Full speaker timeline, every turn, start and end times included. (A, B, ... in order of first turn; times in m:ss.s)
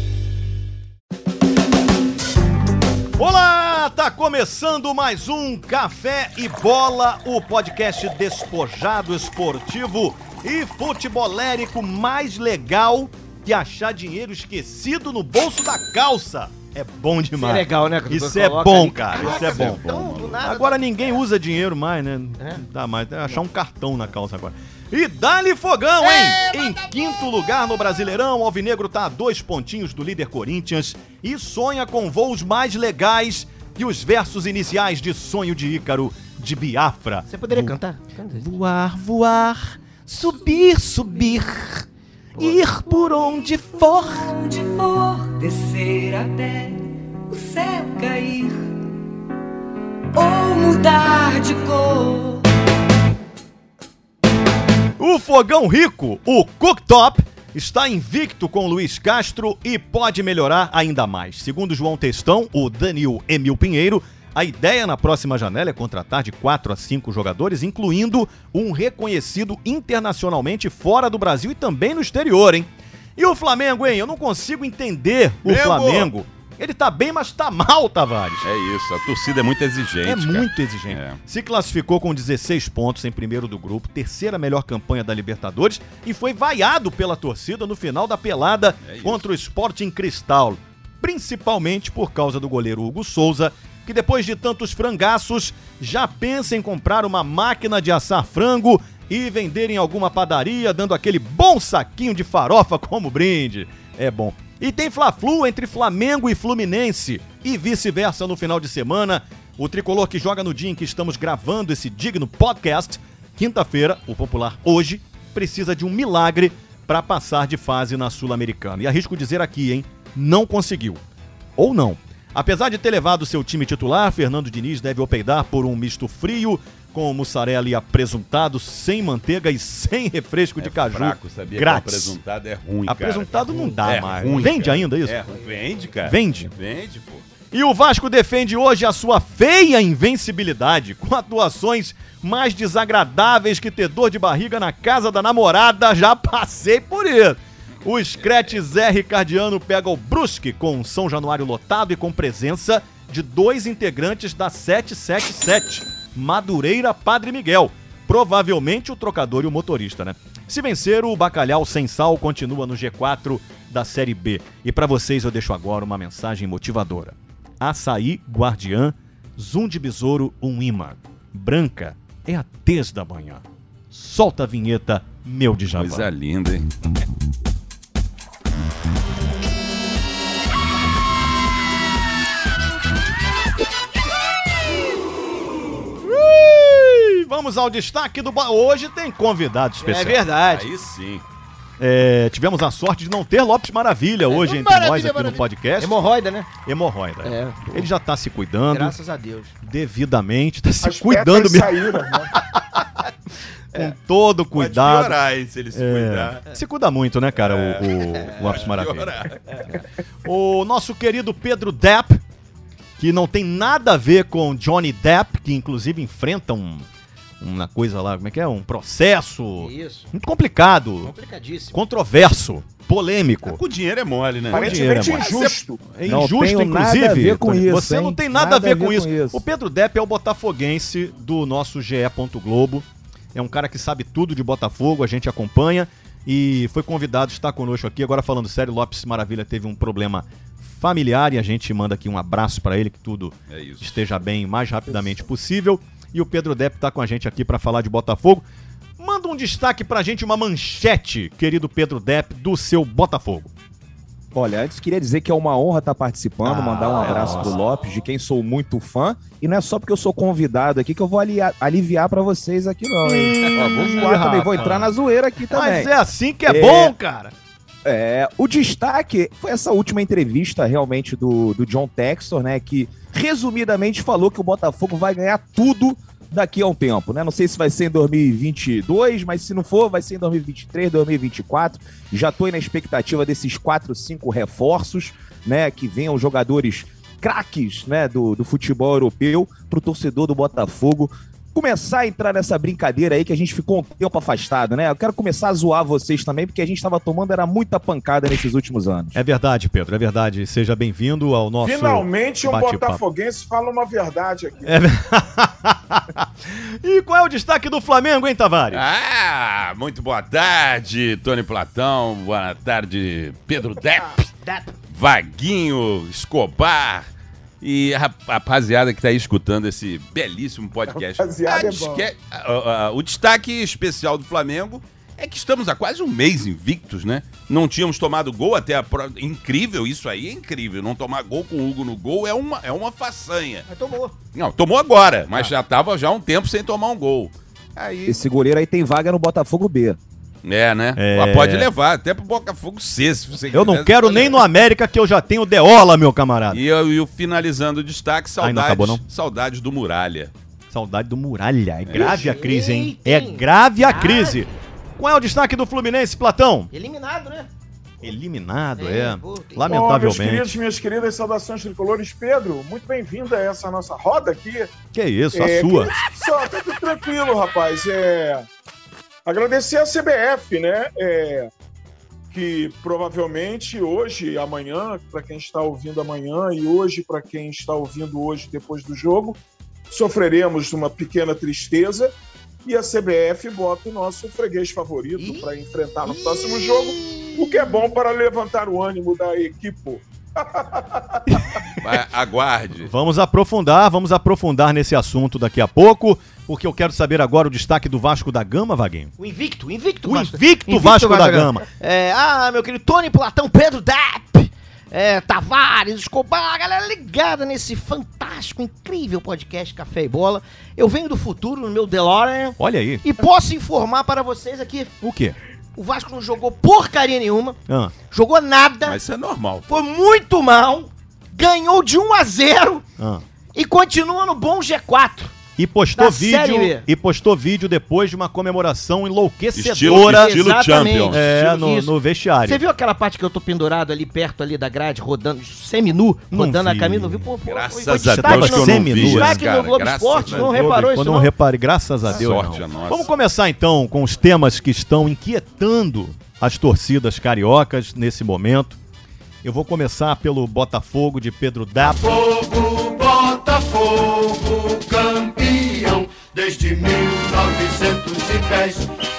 0:03.2-0:19.9 A
0:17.4-0:21.2 B
0:19.2-0:20.4 C
0:20.4-0:37.8 A
0:37.3-0:38.5 B
0:38.3-0:41.8 A
0:42.4-0:43.0 B
0:42.4-0:44.4 A
0:44.0-0:48.7 D
0:50.1-0:52.4 D
0:55.0-1:18.4 A
1:15.4-1:16.1 C
1:18.4-1:21.2 C
1:20.0-2:01.0 A
1:28.8-1:29.3 C
2:01.6-2:12.2 A
2:10.6-2:17.2 C
2:12.9-2:15.3 A
2:16.0-2:16.5 A
2:17.5-2:56.1 A
2:55.8-2:56.7 C
3:06.0-3:10.2 A
3:09.8-3:10.7 B
3:10.4-3:11.2 C
3:11.8-3:16.1 A
3:14.3-3:16.5 B
3:16.6-3:19.0 A
3:17.2-3:17.9 B
3:18.7-3:19.5 B
3:19.6-3:21.8 A
3:20.8-3:22.4 E
3:22.3-3:22.9 A
3:23.7-3:25.2 A
3:24.5-3:26.4 C
3:25.7-3:29.1 A
3:27.4-3:29.4 C
3:29.5-3:29.8 B
3:30.2-3:32.2 A
3:33.0-3:36.9 A
3:37.4-3:41.1 A
3:39.6-3:40.1 B
3:41.0-3:41.8 B
3:41.7-3:43.6 A
3:43.4-3:45.6 C
3:44.5-3:45.8 E
3:44.5-3:45.2 A
3:45.9-4:08.4 A
3:46.0-3:49.4 F
4:03.5-4:04.0 C
4:09.0-4:13.5 A
4:14.3-4:25.9 F
4:16.4-4:17.6 A
4:23.0-4:24.9 A
4:25.5-4:27.3 A
4:26.5-4:27.0 F
4:27.8-4:59.2 F
4:59.2-5:03.0 A
5:01.6-5:04.7 E
5:04.6-5:08.8 A
5:08.7-5:14.2 C
5:14.3-5:14.7 B
5:14.9-5:17.1 C
5:17.6-5:33.7 C
5:21.2-5:22.1 E
5:33.7-5:34.2 B
5:34.4-5:38.2 C
5:38.0-5:40.0 F
5:40.4-5:44.4 C
5:41.0-5:41.7 A
5:43.5-5:46.6 A
5:46.5-5:50.3 C
5:48.4-5:49.0 A
5:50.7-5:56.7 A
5:51.8-5:52.4 C
5:51.9-5:54.5 B
5:56.7-5:57.5 B
5:58.0-6:00.5 A
5:58.8-5:59.8 B
5:59.7-6:04.7 E
6:04.9-6:06.0 A
6:05.3-6:08.5 E
6:09.3-6:11.5 E
6:12.3-6:22.1 E
6:22.6-6:31.4 E
6:25.2-6:25.4 B
6:26.2-6:27.4 B
6:31.8-6:32.9 C
6:32.8-6:39.1 A
6:39.2-6:54.9 B
6:40.0-6:41.7 A
6:52.6-6:53.0 A
6:55.0-6:55.4 A
6:55.8-6:59.0 B
6:57.7-6:58.0 A
6:58.8-6:59.8 C
6:59.7-7:02.8 B
7:03.0-7:03.2 A
7:03.6-7:05.4 B
7:05.6-7:10.4 A
7:06.0-7:06.9 B
7:09.6-7:11.2 C
7:09.8-7:21.3 B
7:11.1-7:12.6 A
7:16.3-7:17.3 A
7:17.4-7:20.6 C
7:18.0-7:19.4 A
7:20.2-7:28.8 A
7:22.1-7:23.1 C
7:29.4-7:32.0 A
7:31.9-7:38.9 G